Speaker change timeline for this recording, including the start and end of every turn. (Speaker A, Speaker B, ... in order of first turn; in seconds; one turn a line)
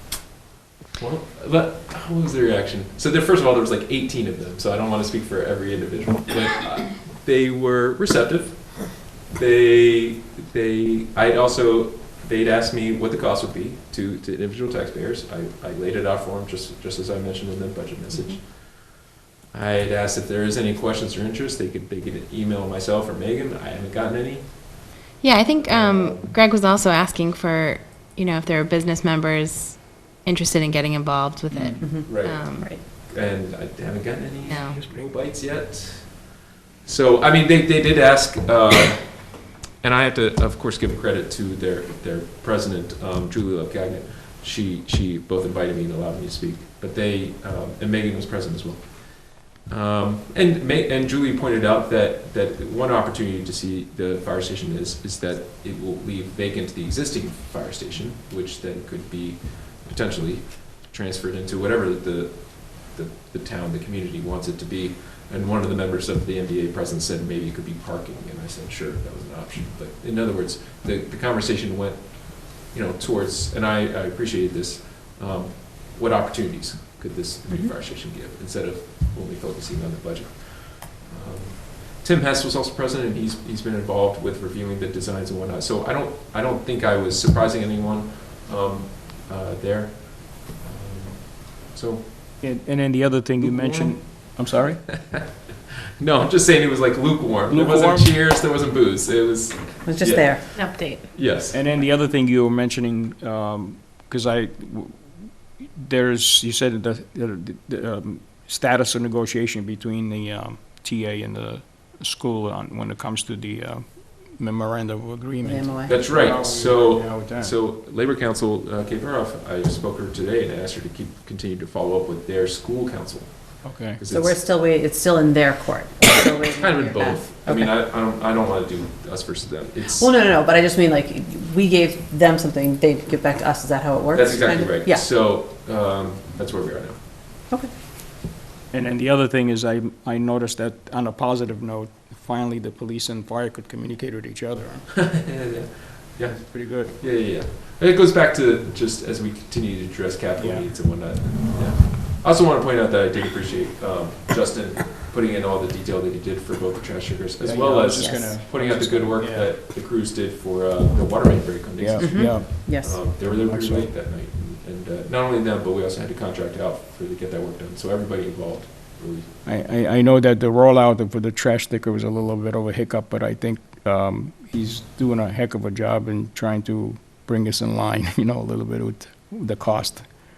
Speaker A: 0.9-24.9
Speaker B: 25.2-32.7
Speaker A: 25.6-26.3
Speaker A: 31.5-92.3
Speaker C: 31.8-32.8
Speaker B: 34.5-34.8
Speaker D: 92.4-94.8
Speaker A: 93.4-94.4
Speaker A: 95.0-95.3
Speaker A: 96.0-101.6
Speaker D: 97.5-98.1
Speaker C: 99.8-100.5
Speaker B: 100.5-101.0
Speaker D: 101.5-117.5
Speaker C: 115.4-115.9
Speaker A: 115.8-124.4
Speaker D: 123.6-124.0
Speaker C: 124.1-127.7
Speaker A: 126.4-130.1
Speaker C: 129.9-135.1
Speaker A: 134.1-137.0
Speaker D: 138.7-144.8
Speaker A: 144.9-169.3
Speaker D: 146.2-146.9
Speaker D: 150.4-150.7
Speaker D: 157.4-159.6
Speaker C: 157.9-158.4
Speaker D: 161.8-163.9
Speaker C: 162.0-163.0
Speaker D: 169.4-180.1